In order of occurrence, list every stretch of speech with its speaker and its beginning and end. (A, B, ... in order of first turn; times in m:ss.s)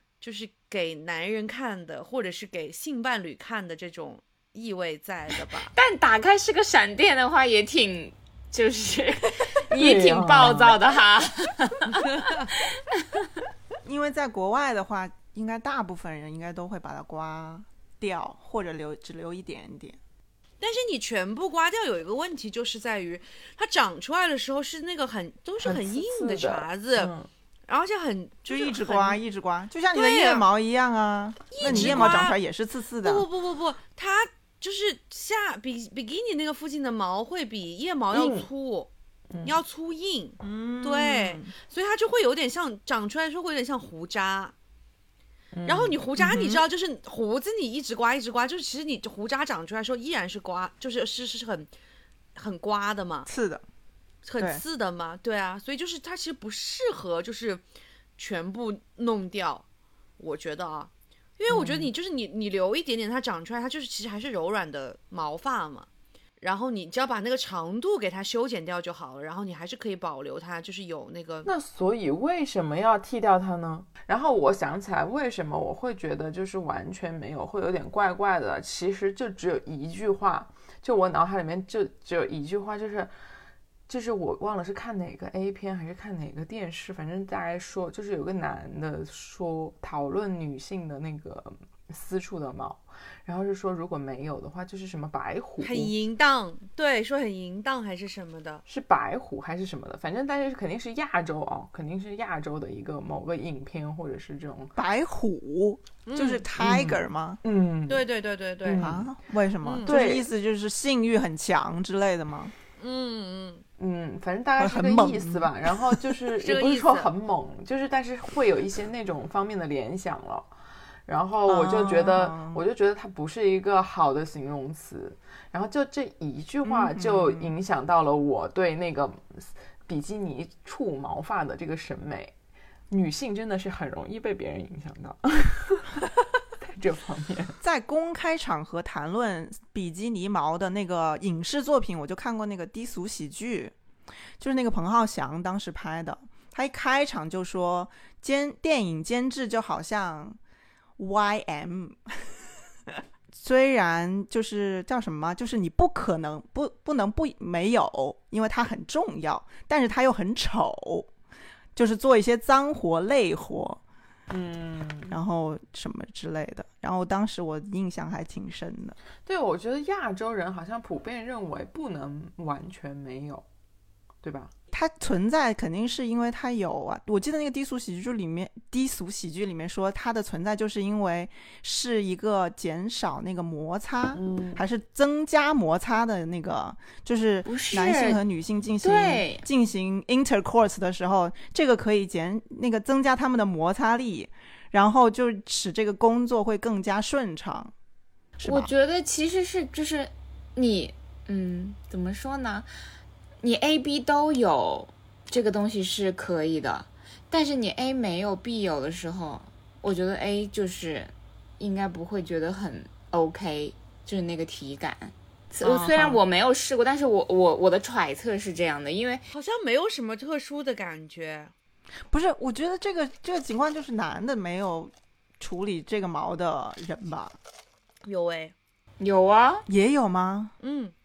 0:00.2-0:05.7 A
0:05.5-0:13.2 B
0:09.7-0:10.8 C
0:13.8-0:20.0 D
0:20.6-0:27.1 A
0:25.6-0:27.3 C
0:27.7-0:29.2 A
0:28.5-0:33.2 D
0:29.9-0:30.4 A
0:31.5-0:32.4 A
0:31.6-0:32.2 C
0:33.0-0:38.9 A
0:38.1-0:38.5 C
0:39.3-0:39.6 C
0:39.4-0:44.5 A
0:40.4-0:41.5 D
0:45.5-0:46.0 C
0:45.6-0:51.7 A
0:46.2-0:46.6 D
0:52.3-0:53.3 A
0:53.3-0:53.6 D
0:54.2-0:57.6 A
0:58.2-0:59.6 A
1:00.2-1:05.9 A
1:01.5-1:01.9 C
1:06.4-1:11.5 A
1:11.4-1:23.1 C
1:23.9-1:35.9 C
1:35.6-1:38.6 A
1:38.7-1:44.7 C
1:44.8-1:47.4 D
1:46.0-1:46.4 A
1:46.6-1:48.0 C
1:47.9-1:48.9 A
1:48.6-1:49.1 C
1:48.8-1:52.5 D
1:49.6-1:49.9 A
1:49.8-1:50.3 C
1:52.8-1:53.6 A
1:53.8-2:00.5 C
1:54.6-1:56.0 D
1:56.4-1:57.1 A
2:01.0-2:12.3 C
2:01.4-2:02.6 D
2:06.6-2:07.5 D
2:12.9-2:16.1 C
2:16.6-2:17.6 C
2:17.6-2:23.7 D
2:24.4-2:30.4 D
2:31.0-2:32.0 D
2:33.3-2:41.1 D
2:41.8-2:43.8 D
2:44.3-2:45.2 C
2:45.1-2:49.0 D
2:49.2-2:53.4 C
2:54.2-2:54.5 C
2:54.7-3:17.7 D
3:04.1-3:04.6 C
3:07.4-3:08.2 B
3:08.8-3:09.4 B
3:18.4-3:18.7 D
3:18.4-3:22.7 B
3:23.4-3:39.2 B
3:35.6-3:36.2 D
3:39.3-3:41.5 A
3:42.1-3:47.3 D
3:48.0-3:48.5 A
3:49.0-3:49.7 B
3:49.7-3:50.5 D
3:50.6-3:50.9 A